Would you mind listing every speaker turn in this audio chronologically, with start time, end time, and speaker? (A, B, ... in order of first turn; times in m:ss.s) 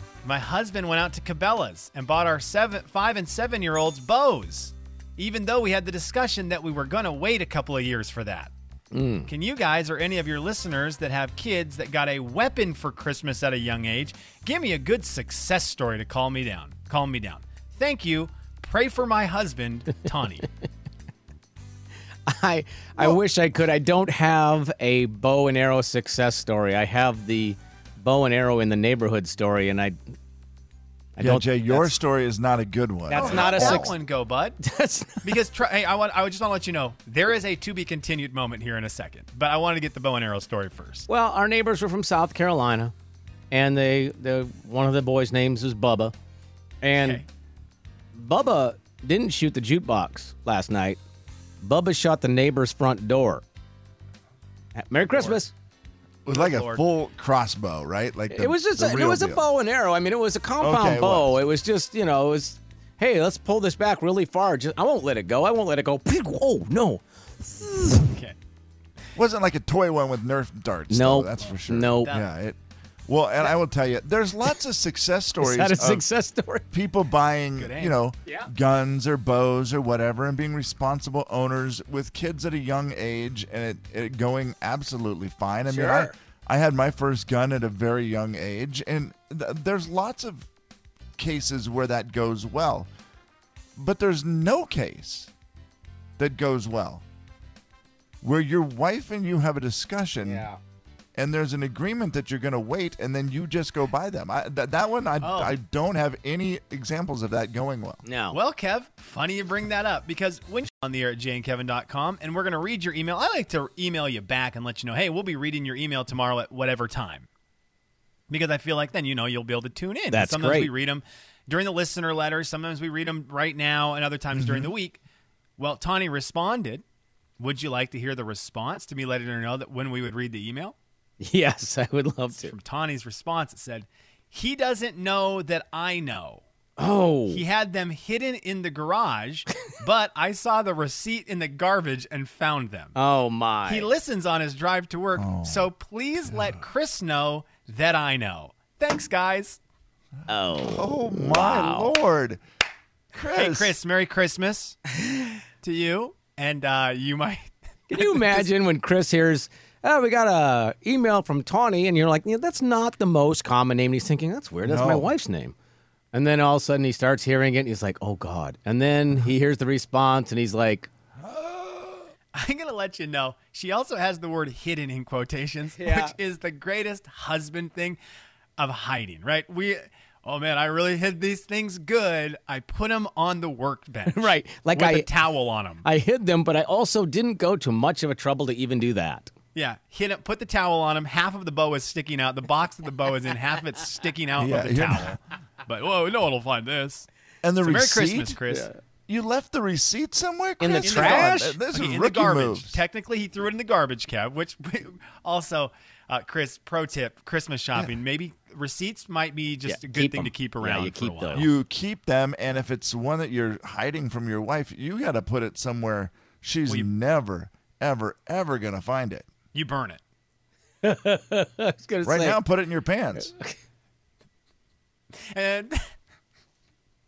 0:00.2-0:08.5 A
0:08.9-0:09.3 B
0:09.3-0:20.4 A
0:22.3-0:30.0 B
0:31.2-0:31.9 B
0:31.2-0:34.0 C
0:33.1-0:34.0 B
0:33.2-0:34.6 A
0:34.6-0:35.4 B
0:35.2-0:41.1 A
0:41.1-0:42.9 B
0:43.5-0:46.1 B
0:46.8-0:47.2 B
0:47.0-0:47.3 A
0:48.1-0:51.0 B
0:51.6-0:53.4 B
0:54.8-0:55.5 B
0:55.1-0:55.4 C
0:56.3-0:59.4 C
0:56.3-0:56.8 A
0:58.3-1:08.1 B
1:00.6-1:01.4 C
1:09.2-1:16.1 C
1:10.9-1:12.2 B
1:15.4-1:16.7 B
1:16.7-1:30.5 C
1:17.6-1:18.0 A
1:25.6-1:26.1 B
1:31.2-1:32.9 C
1:33.8-1:35.3 C
1:36.2-1:37.0 C
1:38.2-1:40.5 C
1:40.2-1:40.6 B
1:41.2-1:48.0 C
1:45.2-1:45.6 A
1:48.0-1:48.4 B
1:48.3-1:57.3 A
1:58.3-2:05.0 A
2:00.1-2:00.7 B
2:04.3-2:04.7 C
2:05.6-2:06.8 A
2:07.4-2:10.8 A
2:11.2-2:12.6 B
2:12.4-2:16.4 A
2:16.8-2:17.4 B
2:17.3-2:23.0 A
2:23.0-2:23.9 B
2:23.7-2:29.6 A
2:25.1-2:25.7 C
2:30.3-2:32.0 B
2:30.6-2:32.4 C
2:33.1-2:33.8 C
2:33.3-2:34.8 A
2:35.6-2:38.5 A
2:37.9-2:45.6 B
2:44.6-2:45.1 C
2:46.1-2:50.9 B
2:51.2-2:52.1 C
2:52.3-2:58.0 A
2:55.8-2:56.2 B
2:58.6-3:05.8 A
3:04.1-3:05.2 B
3:05.8-3:09.3 B
3:09.6-3:17.1 A
3:14.4-3:15.2 C
3:17.4-3:18.4 C
3:17.6-3:18.7 A
3:18.5-3:18.8 B
3:19.1-3:22.8 C
3:20.6-3:21.6 B
3:20.8-3:31.5 A
3:29.7-3:31.5 B
3:31.3-3:39.3 C
3:39.5-3:40.0 A
3:40.8-3:42.4 B
3:42.0-3:43.3 C
3:43.2-3:43.6 B
3:45.3-3:45.8 A